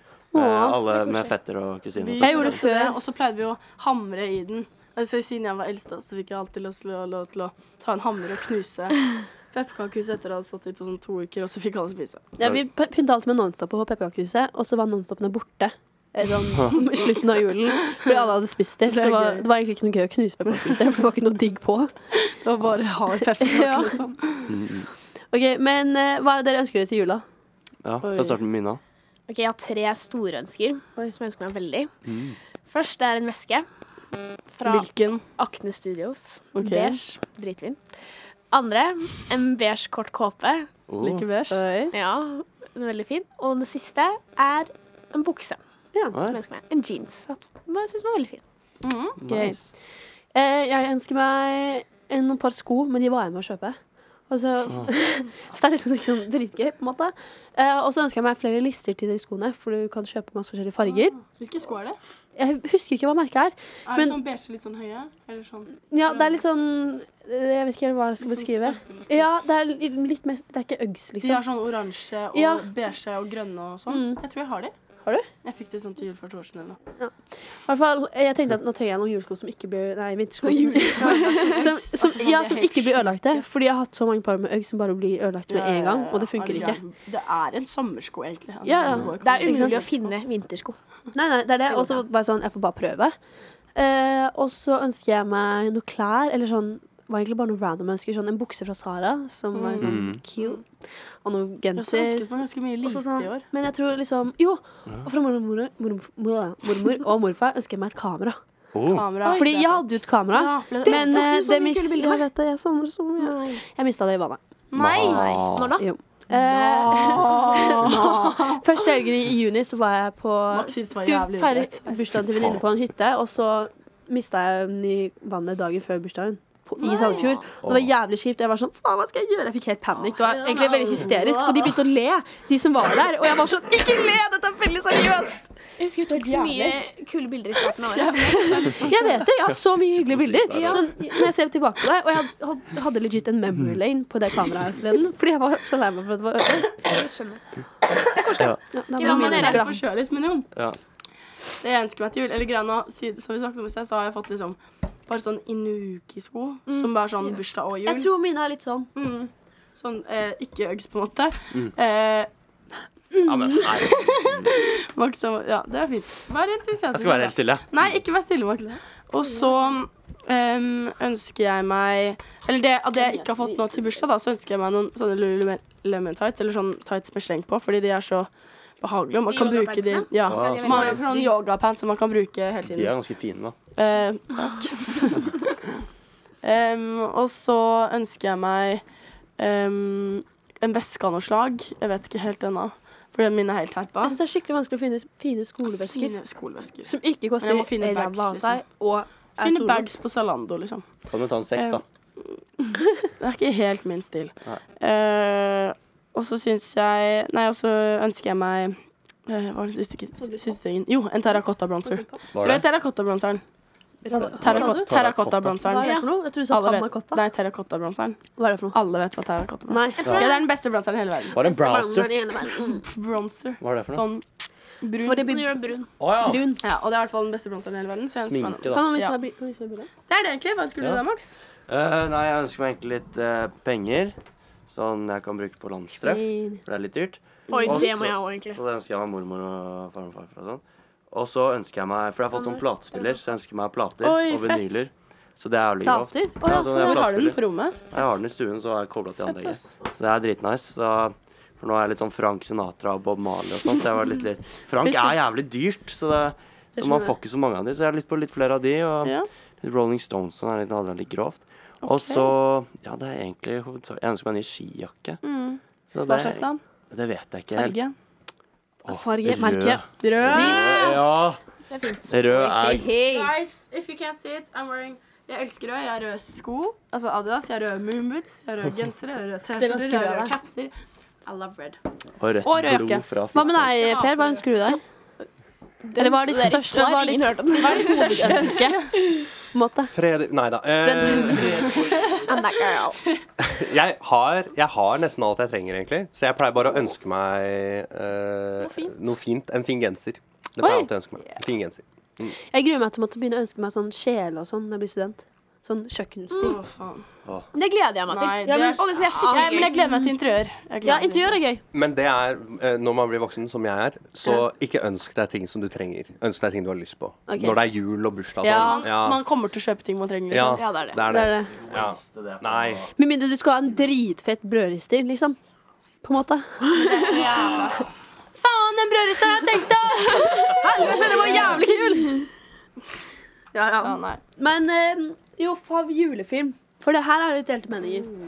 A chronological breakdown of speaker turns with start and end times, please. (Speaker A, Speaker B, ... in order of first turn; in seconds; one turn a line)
Speaker A: 0.3-0.8
Speaker B: 0.3-2.6
Speaker C: 2.0-12.3
Speaker A: 2.2-3.0
Speaker A: 12.4-22.0
Speaker C: 18.8-19.4
Speaker C: 22.2-24.5
Speaker A: 23.4-23.9
Speaker B: 24.5-24.9
Speaker A: 25.3-27.2
Speaker B: 27.8-28.8
Speaker C: 28.0-28.4
Speaker D: 29.3-31.9
Speaker B: 32.0-32.4
Speaker D: 32.6-33.6
Speaker D: 34.5-37.8
Speaker C: 34.6-35.2
Speaker C: 36.5-37.0
Speaker D: 38.5-40.7
Speaker B: 40.9-41.2
Speaker C: 41.0-41.6
Speaker A: 41.5-41.9
Speaker D: 41.9-45.6
Speaker B: 46.1-46.4
Speaker D: 46.1-48.4
Speaker C: 48.8-49.2
Speaker B: 49.2-49.7
Speaker A: 49.3-49.6
Speaker A: 50.3-53.8
Speaker A: 54.3-61.2
Speaker C: 60.8-62.0
Speaker A: 62.4-64.2
Speaker C: 63.9-66.4
Speaker A: 65.9-71.4
Speaker C: 68.2-69.3
Speaker C: 71.2-74.7
Speaker A: 72.3-72.7
Speaker A: 73.9-74.2
Speaker C: 75.4-76.8
Speaker A: 77.0-86.8
Speaker D: 80.4-81.6
Speaker C: 80.7-83.4
Speaker C: 85.5-90.1
Speaker A: 88.6-89.8
Speaker D: 89.2-90.8
Speaker A: 91.1-93.2
Speaker C: 91.7-92.0
Speaker A: 93.7-102.2
Speaker C: 99.5-100.6
Speaker B: 99.8-100.2
Speaker C: 101.8-103.5
Speaker A: 102.8-108.4
Speaker B: 108.7-109.0
Speaker C: 108.9-112.2
Speaker A: 109.2-114.4
Speaker D: 110.8-111.3
Speaker D: 113.2-113.6
Speaker C: 114.7-115.4
Speaker B: 114.8-115.8
Speaker D: 115.0-115.8
Speaker A: 115.8-135.5
Speaker C: 116.3-118.6
Speaker C: 120.5-122.0
Speaker B: 122.3-122.6
Speaker D: 126.8-127.4
Speaker B: 127.6-127.9
Speaker C: 130.2-131.1
Speaker D: 130.2-131.6
Speaker D: 135.8-138.9
Speaker A: 136.1-136.8
Speaker C: 138.0-139.1
Speaker A: 138.7-146.8
Speaker B: 139.5-140.9
Speaker D: 140.5-140.8
Speaker D: 146.8-147.4
Speaker D: 148.1-149.7
Speaker A: 148.7-149.8
Speaker C: 149.0-150.5
Speaker C: 151.6-158.1
Speaker A: 157.8-158.9
Speaker C: 158.9-162.3
Speaker B: 163.2-164.5
Speaker C: 163.2-178.3
Speaker B: 166.9-167.9
Speaker A: 173.0-173.7
Speaker C: 178.8-182.9
Speaker D: 179.3-181.3
Speaker B: 180.2-181.0
Speaker B: 182.6-183.5
Speaker C: 183.7-185.5
Speaker C: 186.4-188.8
Speaker C: 189.4-194.2
Speaker A: 194.0-196.1
Speaker C: 195.9-198.6
Speaker A: 196.8-199.9
Speaker C: 199.4-200.8
Speaker B: 201.1-201.8
Speaker C: 201.5-202.3
Speaker C: 203.2-213.4
Speaker A: 211.8-212.1
Speaker B: 212.3-212.6
Speaker A: 214.0-214.9
Speaker B: 214.1-215.6
Speaker C: 214.4-218.2
Speaker A: 215.6-217.2
Speaker D: 215.8-216.1
Speaker A: 218.4-218.8
Speaker C: 218.7-221.4
Speaker A: 219.7-220.4
Speaker B: 221.3-222.1
Speaker A: 221.4-222.8
Speaker C: 222.8-224.2
Speaker B: 223.6-224.0
Speaker C: 224.8-225.4
Speaker A: 225.0-226.6
Speaker D: 225.3-225.8
Speaker B: 226.0-226.5
Speaker C: 226.6-229.2
Speaker B: 228.2-228.9
Speaker A: 228.7-229.9
Speaker C: 230.1-231.3
Speaker B: 231.7-234.2
Speaker B: 234.7-247.4
Speaker A: 236.0-236.6
Speaker C: 237.5-237.9
Speaker D: 237.5-238.6
Speaker C: 244.0-244.8
Speaker A: 245.8-247.0
Speaker C: 246.4-247.8
Speaker B: 247.9-265.2
Speaker C: 249.3-249.6
Speaker A: 256.8-257.1
Speaker C: 261.8-262.3
Speaker C: 265.2-266.6
Speaker B: 265.9-267.8
Speaker C: 267.5-267.9
Speaker B: 268.8-271.4
Speaker A: 268.9-271.1
Speaker C: 270.0-270.9
Speaker D: 271.7-272.1
Speaker B: 272.1-272.9
Speaker A: 272.2-273.3
Speaker C: 273.0-280.7
Speaker A: 279.6-280.3
Speaker C: 281.2-281.8
Speaker B: 282.2-283.9
Speaker C: 282.4-283.0
Speaker A: 282.6-284.8
Speaker C: 283.8-284.4
Speaker D: 285.8-288.6
Speaker A: 286.0-289.9
Speaker C: 287.6-288.9
Speaker E: 289.9-291.9
Speaker A: 290.8-291.7
Speaker C: 291.7-292.2
Speaker D: 292.2-293.0
Speaker E: 293.4-301.8
Speaker C: 298.6-298.9
Speaker A: 300.6-300.9
Speaker A: 302.4-306.6
Speaker D: 306.3-306.6
Speaker C: 306.4-307.0
Speaker D: 307.5-309.8
Speaker C: 308.1-311.4
Speaker A: 308.5-310.1
Speaker A: 310.8-311.6
Speaker E: 311.7-319.2
Speaker A: 317.3-317.6
Speaker A: 318.4-318.9
Speaker C: 318.5-320.8
Speaker E: 320.3-322.9
Speaker D: 320.6-321.0
Speaker A: 321.1-321.6
Speaker B: 321.5-322.9
Speaker A: 322.9-325.4
Speaker A: 326.0-327.5
Speaker C: 326.7-327.9
Speaker C: 328.4-331.6
Speaker A: 330.1-332.3
Speaker A: 333.5-338.1
Speaker C: 333.8-334.2